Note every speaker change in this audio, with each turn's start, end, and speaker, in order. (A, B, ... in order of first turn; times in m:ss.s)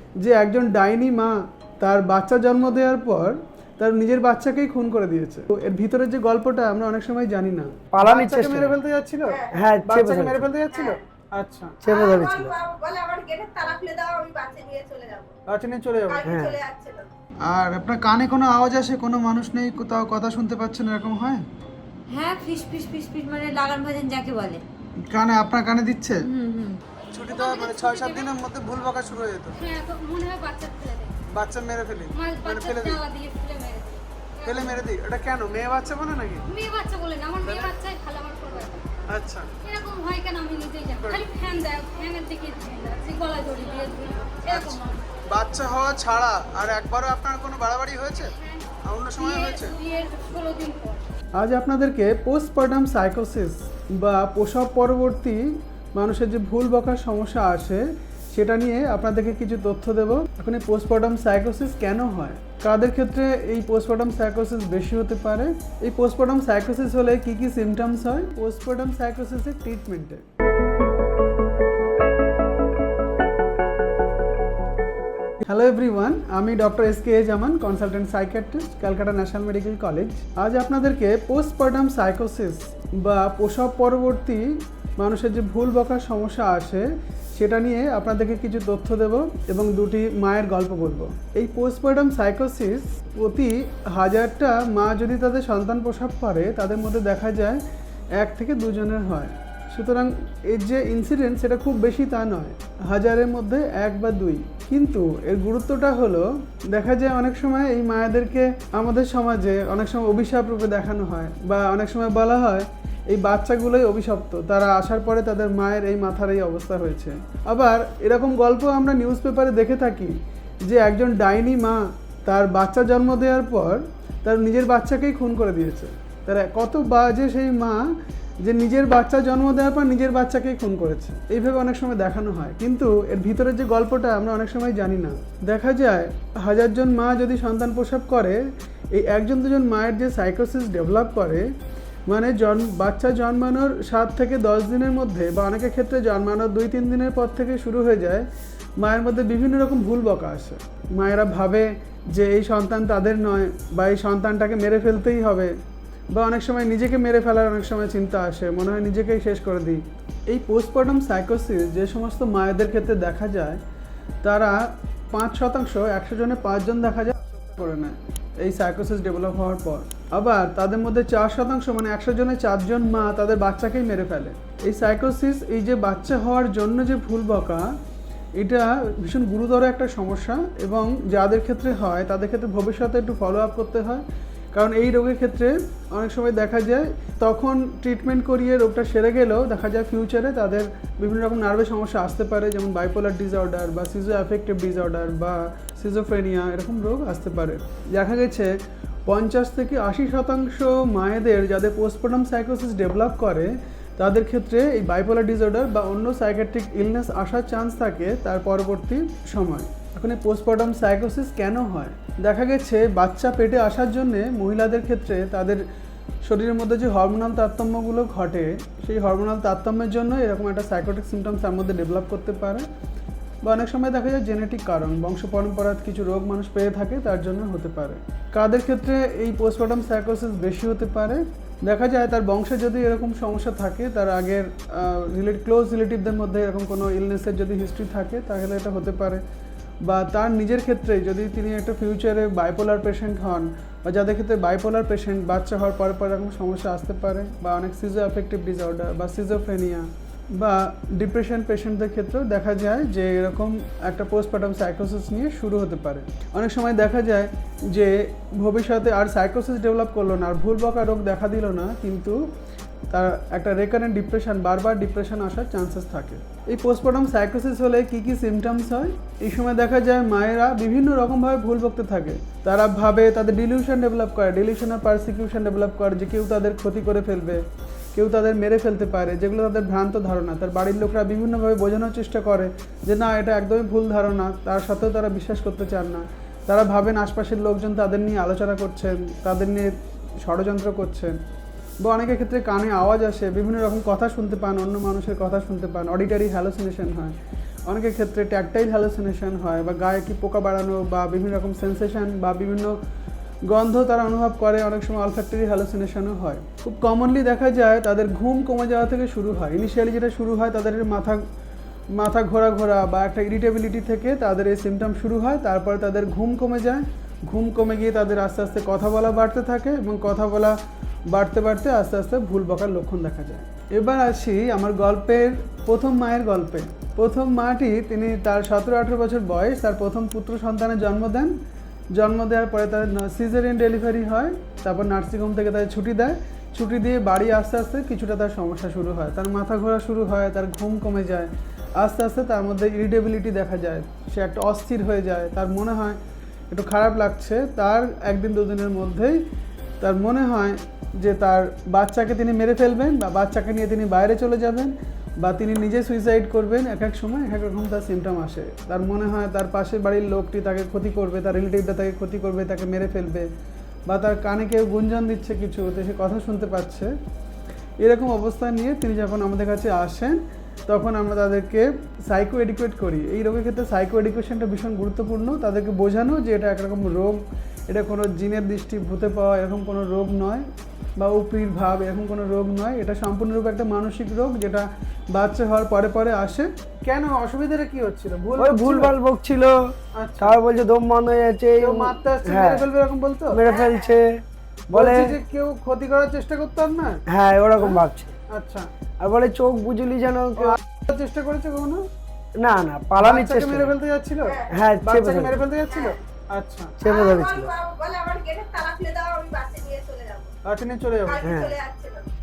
0:00.2-0:11.8 A
0:07.9-0:08.8 B
0:09.5-0:10.5 B
0:10.7-0:11.0 C
0:11.8-0:12.6 B
0:11.9-0:15.3 C
0:15.5-0:16.2 A
0:16.1-0:17.1 C
0:16.2-0:16.6 B
0:17.4-0:21.4 A
0:22.1-0:24.6 D
0:25.1-0:26.3 A
0:26.2-0:26.8 D
0:27.1-0:29.6 A
0:27.3-0:28.3 E
0:29.6-0:31.2 E
0:31.3-0:33.0 A
0:32.2-0:34.8 E
0:34.4-0:36.4 A
0:36.5-0:38.9 E
0:37.4-0:37.7 A
0:39.1-0:39.5 A
0:39.6-0:45.0 E
0:41.0-0:41.2 A
0:44.4-0:48.3 A
0:48.8-0:49.7 A
0:49.2-0:51.0 E
0:51.4-0:55.4 A
0:56.0-1:10.2 A
1:15.4-1:24.4 A
1:25.0-1:37.6 A
1:38.2-2:00.1 A
2:00.6-2:07.8 A
2:08.4-2:18.4 A
2:18.9-2:21.5 A
2:22.1-2:28.2 A
2:28.8-2:35.5 A
2:36.1-2:43.6 A
2:44.2-2:57.7 A
2:58.4-3:04.0 A
3:04.5-3:18.5 A
3:19.1-3:35.6 A
3:36.2-3:42.6 A
3:43.4-3:59.2 A
3:59.9-4:22.2 A
4:22.9-4:51.2 A
4:51.8-4:57.1 A
4:57.7-5:02.8 A
5:03.5-5:11.2 A
5:11.9-5:20.6 A
5:21.1-5:31.3 A
5:32.0-5:46.0 A
5:46.5-5:49.2 A
5:49.8-6:03.3 A
6:03.9-6:06.9 A
6:07.8-6:20.4 A
6:21.0-6:28.9 A
6:28.4-6:29.5 B
6:30.0-6:30.4 A
6:30.2-6:32.7 B
6:31.6-6:33.4 A
6:33.3-6:35.1 B
6:33.5-6:33.8 C
6:34.7-6:37.0 A
6:37.1-6:38.1 B
6:38.3-6:38.7 A
6:39.0-6:40.6 B
6:40.4-6:41.8 A
6:42.4-6:43.7 B
6:43.0-6:46.7 A
6:44.5-6:45.4 B
6:46.8-6:47.5 B
6:46.8-6:50.3 C
6:50.4-6:51.2 A
6:51.1-6:52.1 C
6:51.2-6:51.6 B